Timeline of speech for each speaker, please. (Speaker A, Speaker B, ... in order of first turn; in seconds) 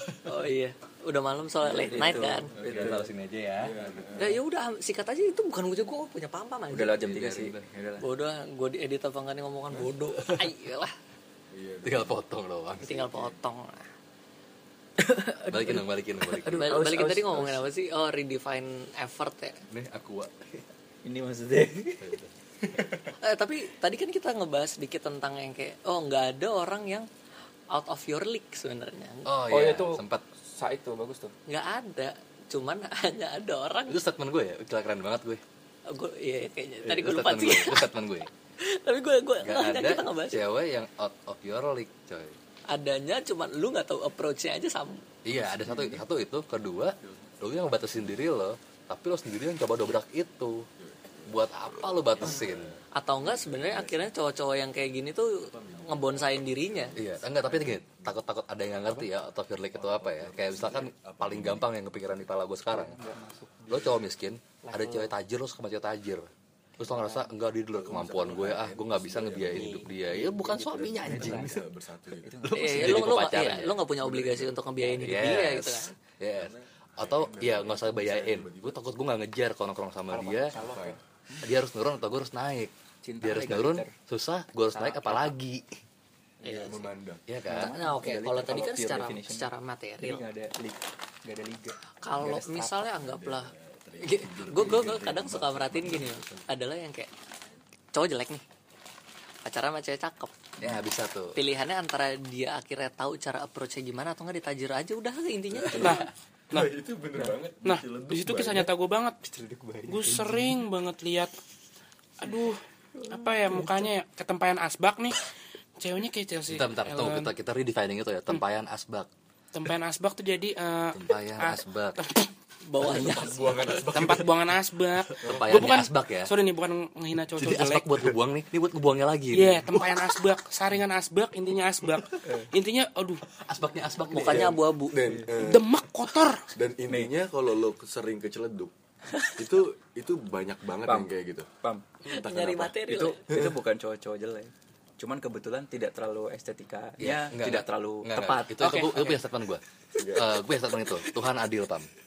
Speaker A: 0.2-2.5, 4.2-7.1, 8.0-10.9, 12.8-13.9, 16.5-19.6, 23.2-27.1, 27.7-29.4, 31.5-34.0, 35.9-37.9, 38.6-40.4, 42.7-45.0, 52.9-57.0, 72.5-75.9, 86.4-86.8, 87.5-90.2, 92.0-97.1, 97.9-98.4, 99.4-100.3, 101.3-106.1, 122.6-123.8, 134.1-135.1, 142.1-143.2, 148.7-149.0
Speaker B: 1.6-3.1, 6.7-8.1, 15.0-17.6, 21.0-22.2, 29.5-31.3, 62.7-64.0, 64.6-65.1, 66.8-67.2, 69.5-71.6, 72.2-73.1, 80.1-81.5, 83.0-83.9, 84.7-85.3, 86.5-86.8, 87.5-89.5, 90.0-92.9, 109.2-110.2, 132.2-132.5, 135.0-135.3, 136.9-137.1, 140.8-141.9, 142.7-148.5
Speaker C: 1.8-3.1, 3.6-4.4, 11.5-12.2, 45.4-46.0, 47.0-48.2, 50.8-54.1, 55.5-58.2, 59.7-61.7, 67.7-72.4, 73.9-74.6, 76.3-78.8, 80.5-81.0, 86.4-87.2, 92.9-96.5, 106.5-108.7, 122.8-124.5, 125.2-125.6, 134.2-135.7, 136.5-138.7, 139.2-141.5, 142.1-142.8, 143.3-143.6, 149.9-150.3
Speaker D: 2.6-4.1, 7.0-7.6, 11.8-13.3, 15.5-16.7, 19.7-20.6, 22.0-22.3, 29.2-30.2, 33.9-35.4, 36.8-38.3, 39.4-42.4, 45.2-50.6, 51.3-52.7, 57.0-63.0, 63.7-66.3, 66.8-71.6, 72.4-73.8, 75.0-80.5, 81.4-85.8, 87.3-87.7, 100.6-101.4, 116.5-119.1, 120.9-122.0, 125.2-126.3, 127.4-129.8, 133.4-134.6, 147.0-149.6, 150.1-151.9
Speaker E: 105.8-106.7, 107.6-109.2, 109.9-111.3, 112.2-115.2, 115.8-117.3, 119.5-122.3, 123.9-128.0, 129.3-133.2, 135.3-136.5, 148.6-149.0